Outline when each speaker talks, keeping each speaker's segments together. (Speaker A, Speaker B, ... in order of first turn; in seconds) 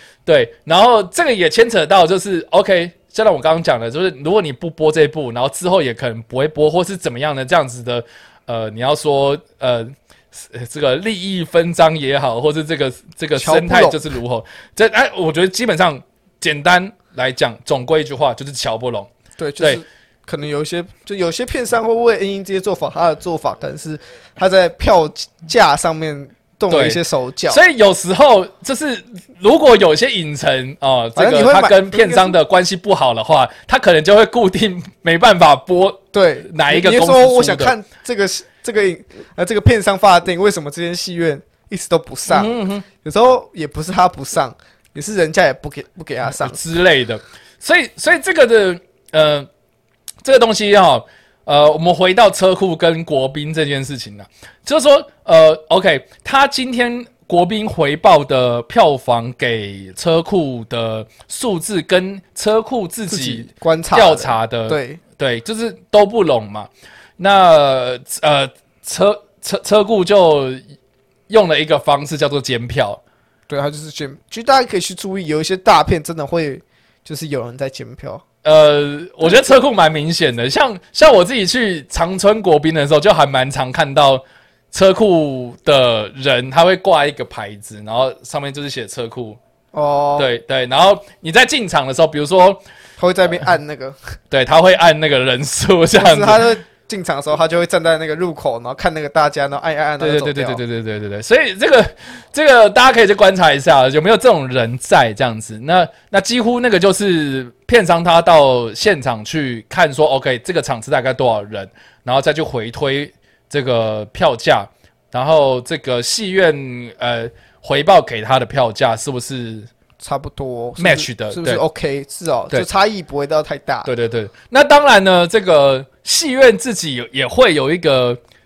Speaker A: 0.2-19.8, 26.7-37.7, 42.3-42.9, 46.2-49.5, 50.2-70.6, 71.3-73.0, 78.4-89.4, 90.2-92.6, 94.3-96.5, 100.0-119.7, 120.8-121.6, 123.8-128.2
Speaker B: 13.3-14.0, 19.4-27.6, 31.1-32.4, 36.1-46.6, 63.1-65.0, 73.5-78.2, 89.7-90.3, 93.0-94.0, 95.9-100.6, 120.0-123.9